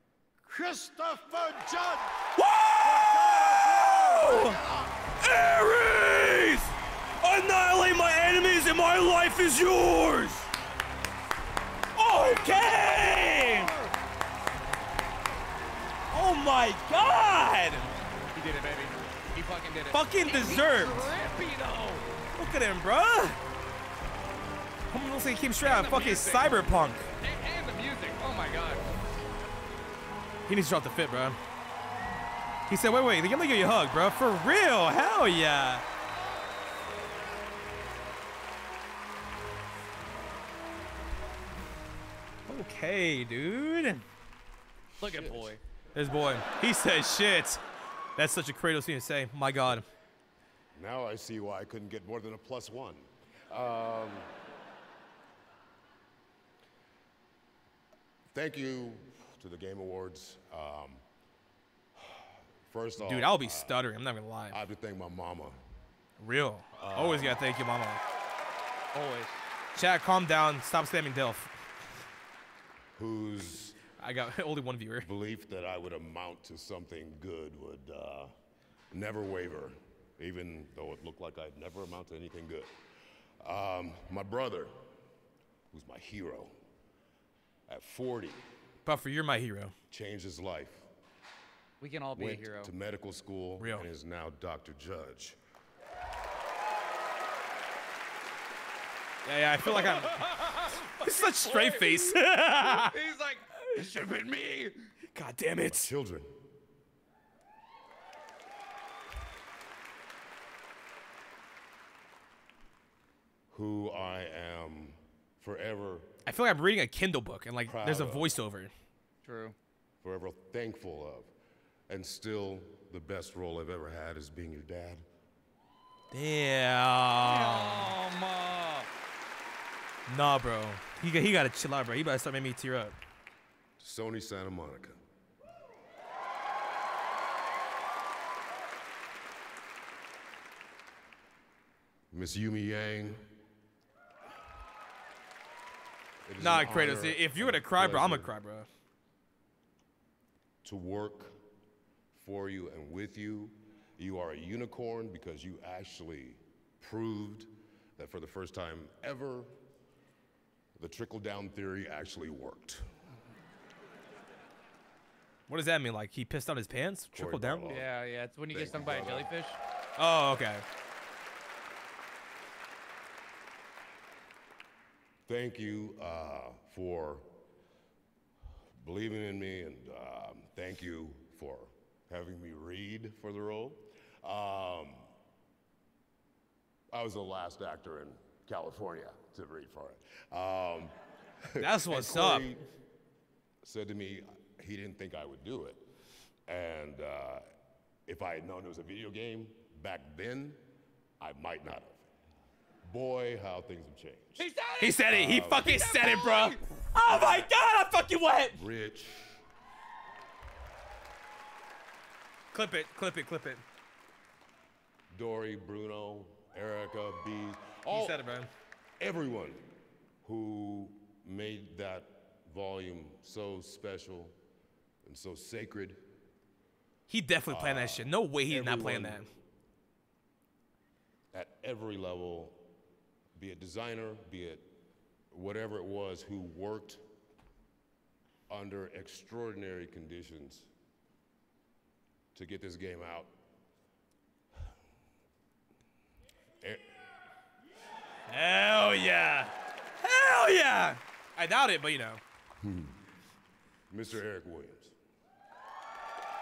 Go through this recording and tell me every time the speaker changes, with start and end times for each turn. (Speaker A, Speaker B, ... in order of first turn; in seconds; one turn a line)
Speaker A: 0.5-2.1
Speaker B: 2.4-4.6
Speaker A: 2.8-4.9
Speaker B: 5.2-10.5
Speaker B: 11.9-13.7
Speaker C: 13.3-13.8
Speaker B: 16.1-17.9
Speaker C: 18.3-22.1
Speaker B: 19.9-21.1
Speaker B: 22.4-23.4
Speaker B: 24.9-27.1
Speaker C: 25.6-26.5
Speaker C: 27.2-28.9
Speaker B: 30.5-31.4
Speaker B: 32.7-35.8
Speaker B: 42.5-44.0
Speaker C: 45.0-45.6
Speaker D: 45.0-45.5
Speaker B: 45.9-47.6
Speaker B: 48.2-49.8
Speaker D: 50.7-54.3
Speaker D: 58.3-61.0
Speaker D: 62.7-63.8
Speaker B: 63.0-64.6
Speaker D: 64.5-65.6
Speaker B: 66.2-68.0
Speaker D: 66.7-67.4
Speaker C: 68.9-69.4
Speaker B: 69.8-71.5
Speaker D: 73.0-73.8
Speaker B: 74.0-75.1
Speaker D: 75.0-78.3
Speaker D: 78.9-82.7
Speaker D: 83.4-84.8
Speaker D: 85.7-86.5
Speaker D: 87.7-88.4
Speaker B: 88.8-89.7
Speaker D: 89.9-90.9
Speaker C: 91.8-92.7
Speaker D: 92.1-95.4
Speaker B: 93.6-93.8
Speaker B: 99.2-100.2
Speaker C: 99.7-104.7
Speaker B: 101.0-102.9
Speaker B: 105.1-105.9
Speaker D: 105.7-106.3
Speaker D: 113.5-116.1
Speaker B: 116.2-118.7
Speaker D: 117.7-118.4
Speaker C: 119.2-119.5
Speaker D: 120.0-121.3
Speaker D: 121.9-125.0
Speaker B: 126.1-127.9
Speaker C: 127.2-128.9
Speaker B: 130.1-132.9
Speaker D: 133.8-135.0
Speaker D: 142.1-143.2
Speaker D: 146.2-148.3
Speaker B: 146.4-148.7
Speaker D: 150.6-151.4
Speaker D: 152.1-159.5
Speaker D: 160.8-162.8
Speaker B: 165.5-167.7
Speaker D: 167.1-167.9
Speaker C: 167.7-169.6
Speaker D: 168.5-169.3
Speaker B: 170.0-170.6
Speaker D: 175.3-177.3
Speaker D: 178.8-185.1
Speaker D: 186.9-190.9
Speaker D: 191.6-192.6
Speaker B: 191.6-192.5
Speaker D: 193.6-195.8
Speaker D: 196.5-197.4
Speaker D: 198.1-200.6
Speaker D: 201.2-202.1
Speaker D: 202.8-204.4
Speaker C: 204.3-206.6
Speaker B: 204.8-208.6
Speaker D: 205.1-205.6
Speaker D: 207.1-207.5
Speaker D: 208.5-209.4
Speaker B: 212.5-213.6
Speaker D: 215.1-218.2
Speaker B: 217.9-218.5
Speaker D: 219.0-219.6
Speaker D: 220.2-224.3
Speaker D: 225.0-226.0
Speaker B: 227.1-229.3
Speaker D: 227.5-229.2
Speaker D: 231.3-232.6
Speaker D: 233.3-234.7
Speaker D: 235.3-237.0
Speaker D: 238.5-240.7
Speaker D: 242.3-243.3
Speaker D: 246.6-246.9
Speaker B: 248.3-252.2
Speaker D: 252.6-252.9
Speaker D: 253.9-254.9